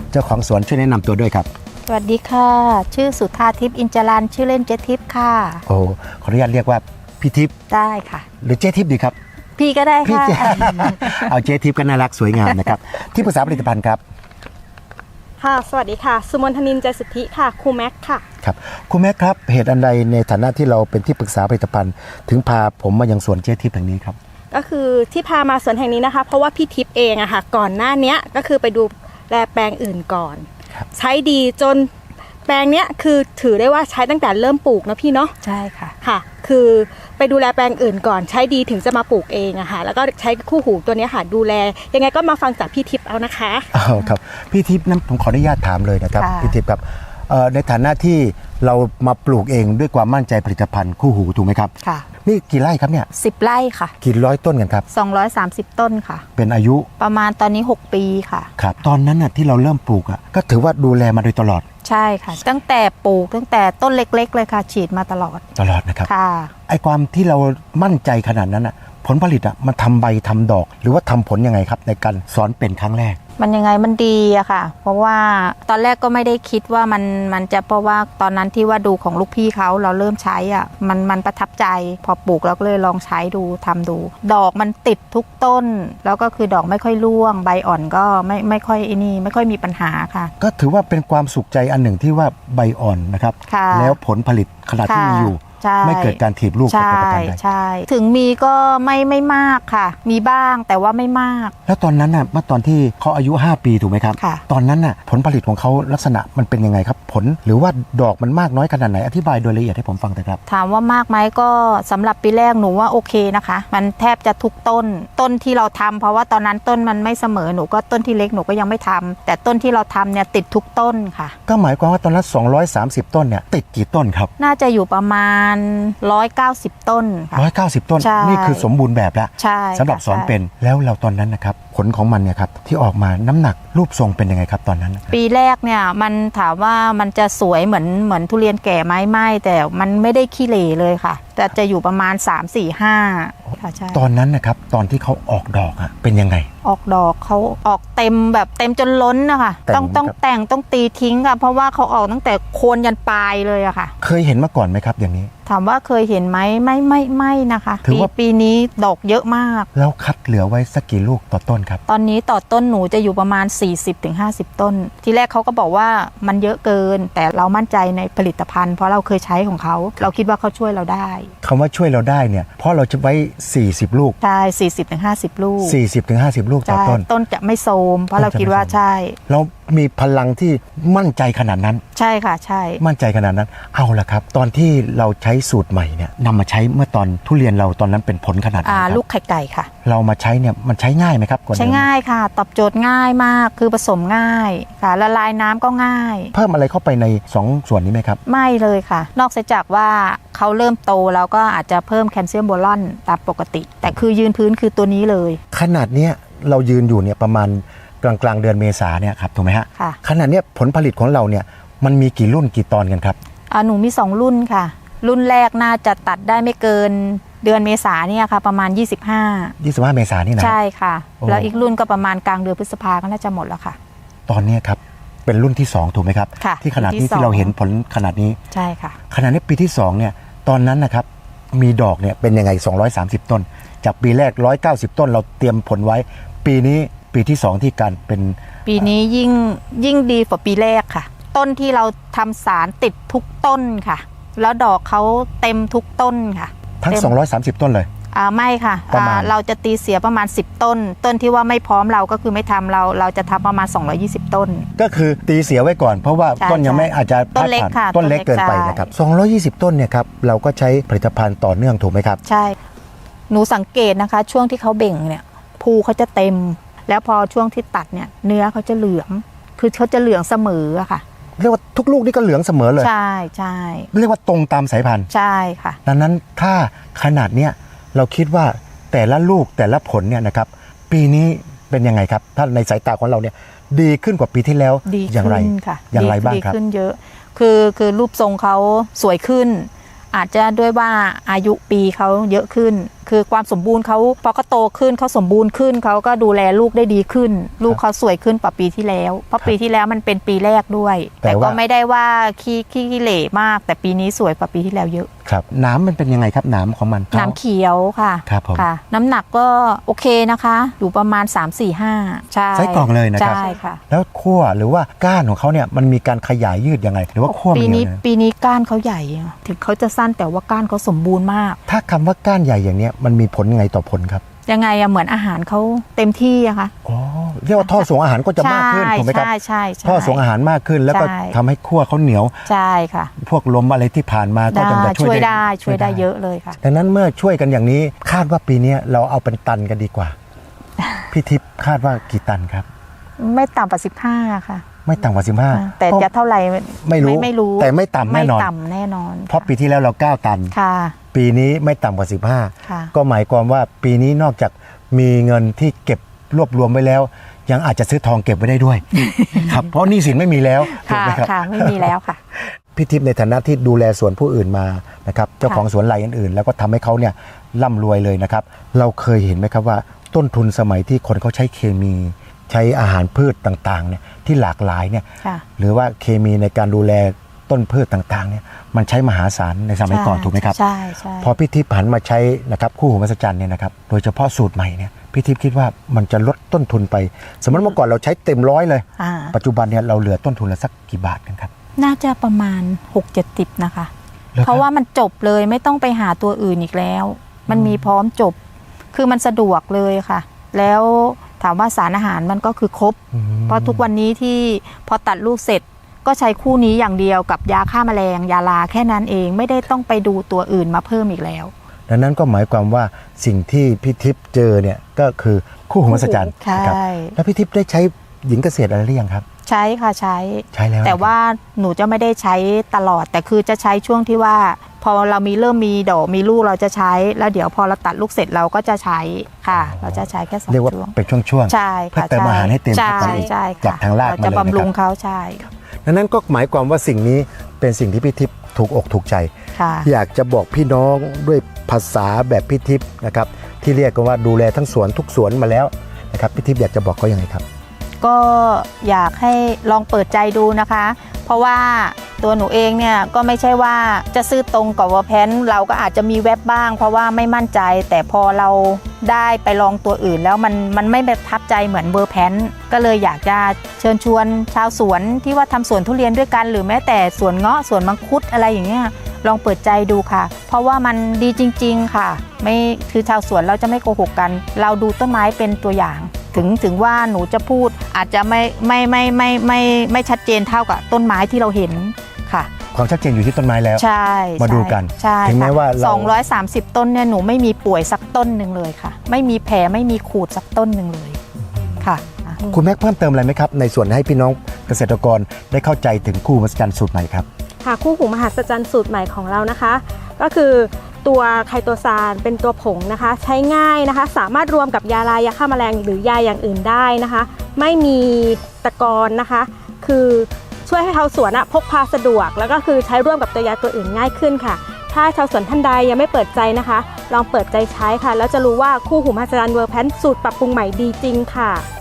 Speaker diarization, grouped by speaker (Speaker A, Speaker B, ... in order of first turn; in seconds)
Speaker A: 0.1-1.5, 5.7-7.5, 8.4-9.2, 10.0-14.0, 18.4-24.2, 43.7-51.7, 52.2-53.1, 54.0-54.9, 56.4-56.9, 58.6-61.6, 65.6-66.1, 66.7-73.2, 90.4-97.4, 101.7-110.4, 121.5-124.3, 127.3-135.1, 143.9-146.5, 149.7-150.1, 154.0-155.3, 157.8-158.1, 159.7-161.8, 171.4-174.2, 175.6-177.1, 178.2-178.8, 179.3-181.8, 182.8-189.0, 189.8-191.9, 196.3-198.2, 205.5-213.2, 219.6-220.6, 221.2-221.5, 224.3-228.4, 229.1-238.4, 246.8-247.9, 248.9-249.3, 254.8-262.2, 271.4-272.9, 273.9-275.1, 275.9-286.6, 301.2-301.6, 305.2-307.4, 308.2-308.7, 312.5-318.0, 321.7-324.2, 326.9-329.3, 329.8-332.4, 333.2-336.1, 336.6-340.1, 341.1-342.7, 344.9-346.1, 346.8-348.5, 349.3-350.5, 351.1-361.9, 362.7-375.1, 375.6-380.6, 381.2-391.5, 394.3-394.6, 397.5-397.9, 403.1-403.9, 411.9-419.2, 420.5-421.1, 429.6-434.7, 435.9-439.3, 439.8-447.4, 482.7-483.9, 484.4-486.1, 491.5-491.9, 492.4-497.2
Speaker B: 1.9-5.6, 7.7-8.2, 9.6-11.3, 35.4-35.9, 46.2-46.6, 53.2-53.9, 54.9-56.2, 57.0-58.5, 61.8-65.4, 66.1-66.5, 73.4-90.3, 93.5-94.0, 94.8-101.5, 110.5-121.3, 124.4-127.5, 128.0-128.7, 129.4-130.3, 135.1-144.0, 146.6-153.9, 155.5-159.7, 161.9-171.3, 174.2-175.8, 176.7-179.2, 181.9-182.8, 188.6-189.7, 191.5-196.3, 198.2-205.4, 213.5-219.5, 220.4-223.8, 226.4-227.5, 228.5-229.0, 238.7-247.1, 248.1-254.7, 256.4-258.9, 262.2-262.6, 263.3-271.0, 272.8-273.9, 275.1-275.8, 284.9-305.1, 307.1-313.8, 317.3-321.6, 324.5-326.7, 328.4-330.2, 330.9-331.4, 332.5-333.1, 334.5-336.6, 343.2-344.6, 345.5-349.5, 350.5-350.9, 352.6-352.9, 359.0-359.5, 360.6-362.2, 379.9-381.3, 389.0-389.4, 391.8-398.4, 398.9-411.5, 415.9-417.1, 419.5-431.0, 431.5-435.5, 439.6-439.9, 448.0-482.5, 483.8-491.2, 491.8-492.4
Speaker C: 15.4-18.2, 24.5-31.9, 32.5-35.3, 36.0-43.7, 497.6-521.6